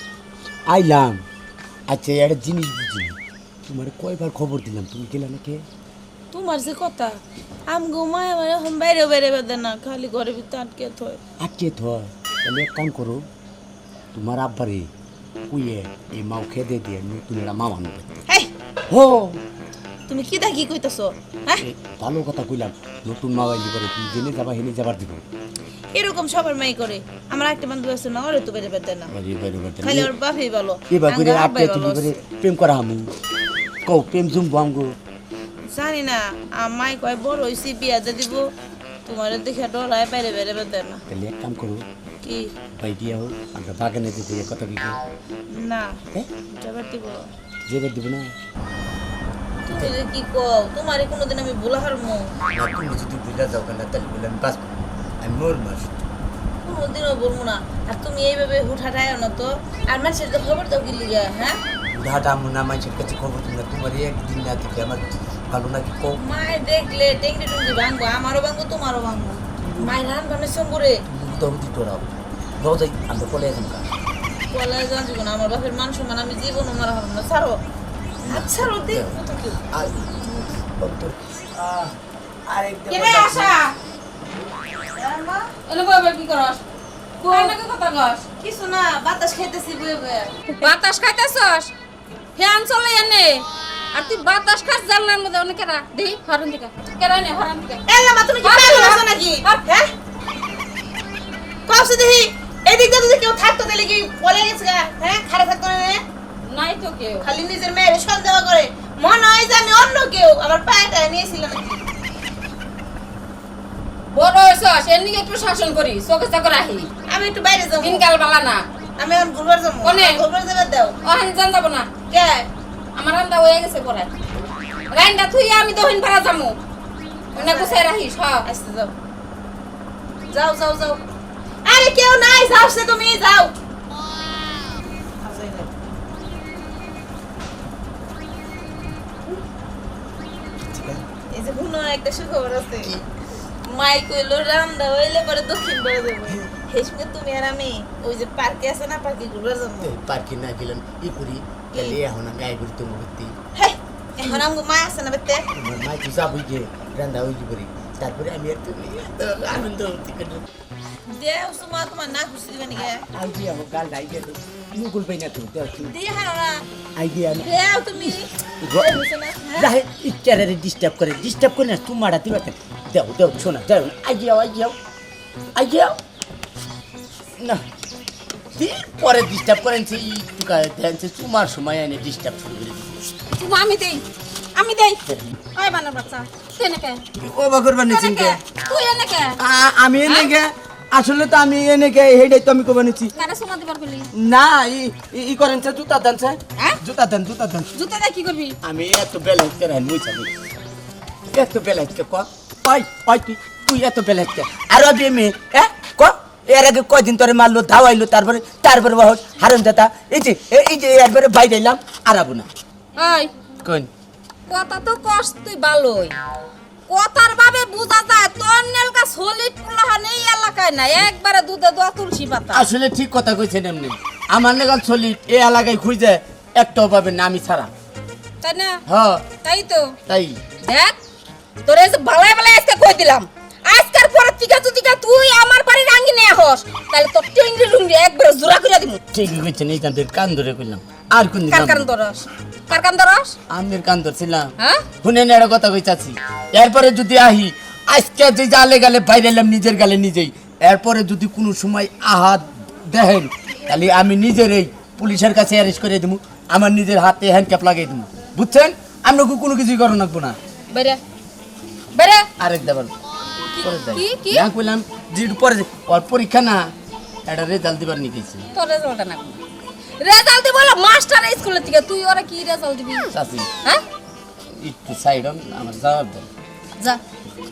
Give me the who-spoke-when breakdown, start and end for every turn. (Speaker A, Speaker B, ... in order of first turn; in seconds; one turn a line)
Speaker A: 0.7-1.2
Speaker A: 1.9-5.6
Speaker B: 6.3-11.2
Speaker A: 11.4-13.2
Speaker A: 14.1-14.9
Speaker A: 15.5-18.1
Speaker A: 18.9-19.4
Speaker B: 20.1-21.6
Speaker A: 21.6-25.2
Speaker B: 25.9-29.1
Speaker A: 29.1-30.1
Speaker B: 29.8-32.1
Speaker A: 30.9-33.1
Speaker A: 33.9-34.9
Speaker B: 35.7-38.5
Speaker B: 39.0-41.0
Speaker A: 41.1-41.8
Speaker A: 42.7-45.0
Speaker B: 45.5-46.0
Speaker B: 46.5-47.3
Speaker A: 47.7-48.3
Speaker B: 49.7-52.3
Speaker A: 52.5-55.9
Speaker B: 56.6-61.6
Speaker A: 61.9-66.2
Speaker B: 66.2-71.0
Speaker A: 69.6-69.9
Speaker A: 71.1-73.9
Speaker B: 74.5-77.6
Speaker A: 78.2-79.2
Speaker B: 78.3-79.5
Speaker A: 79.7-82.0
Speaker A: 82.5-83.5
Speaker C: 82.9-83.7
Speaker B: 84.9-85.5
Speaker C: 85.7-86.6
Speaker C: 87.2-88.2
Speaker B: 87.3-87.5
Speaker B: 88.4-90.5
Speaker C: 90.6-91.7
Speaker C: 92.3-97.8
Speaker B: 97.9-99.9
Speaker C: 98.4-99.6
Speaker B: 101.7-106.0
Speaker C: 106.4-107.2
Speaker B: 107.2-111.8
Speaker C: 114.1-116.9
Speaker B: 117.1-118.0
Speaker C: 117.8-118.7
Speaker B: 119.0-121.0
Speaker C: 119.8-120.2
Speaker C: 121.0-121.9
Speaker B: 122.1-122.5
Speaker C: 122.9-124.1
Speaker C: 124.9-126.6
Speaker B: 127.3-127.8
Speaker C: 127.3-128.4
Speaker B: 128.4-128.9
Speaker B: 130.3-131.0
Speaker B: 131.6-133.5
Speaker B: 135.2-135.7
Speaker A: 140.7-141.0
Speaker B: 141.3-142.9
Speaker B: 143.6-149.9
Speaker A: 149.8-153.3
Speaker B: 151.7-152.0
Speaker B: 153.6-155.4
Speaker A: 155.5-160.4
Speaker B: 161.1-163.1
Speaker A: 163.1-165.9
Speaker B: 165.8-166.7
Speaker A: 167.0-167.5
Speaker B: 167.4-169.7
Speaker A: 168.6-169.0
Speaker A: 169.6-174.8
Speaker A: 175.5-176.0
Speaker A: 178.5-183.0
Speaker C: 183.3-185.0
Speaker C: 185.5-187.0
Speaker A: 187.2-188.4
Speaker C: 187.9-189.4
Speaker A: 189.4-193.1
Speaker C: 190.0-190.3
Speaker C: 193.1-194.1
Speaker A: 194.1-197.7
Speaker C: 197.7-198.6
Speaker A: 198.6-200.3
Speaker A: 201.3-212.5
Speaker C: 212.9-213.3
Speaker A: 213.6-213.9
Speaker C: 214.5-216.2
Speaker C: 216.9-222.7
Speaker A: 222.5-227.7
Speaker C: 228.4-228.8
Speaker A: 228.9-229.2
Speaker C: 229.4-229.9
Speaker A: 230.1-230.4
Speaker C: 230.6-231.0
Speaker C: 231.6-239.0
Speaker A: 239.1-241.9
Speaker C: 241.5-243.3
Speaker A: 243.5-260.4
Speaker C: 244.6-244.8
Speaker C: 260.7-261.0
Speaker C: 261.9-262.3
Speaker A: 262.4-262.9
Speaker A: 263.5-266.7
Speaker C: 263.5-264.5
Speaker A: 267.2-268.5
Speaker C: 268.5-269.4
Speaker C: 270.0-273.1
Speaker A: 273.1-273.5
Speaker A: 274.5-276.3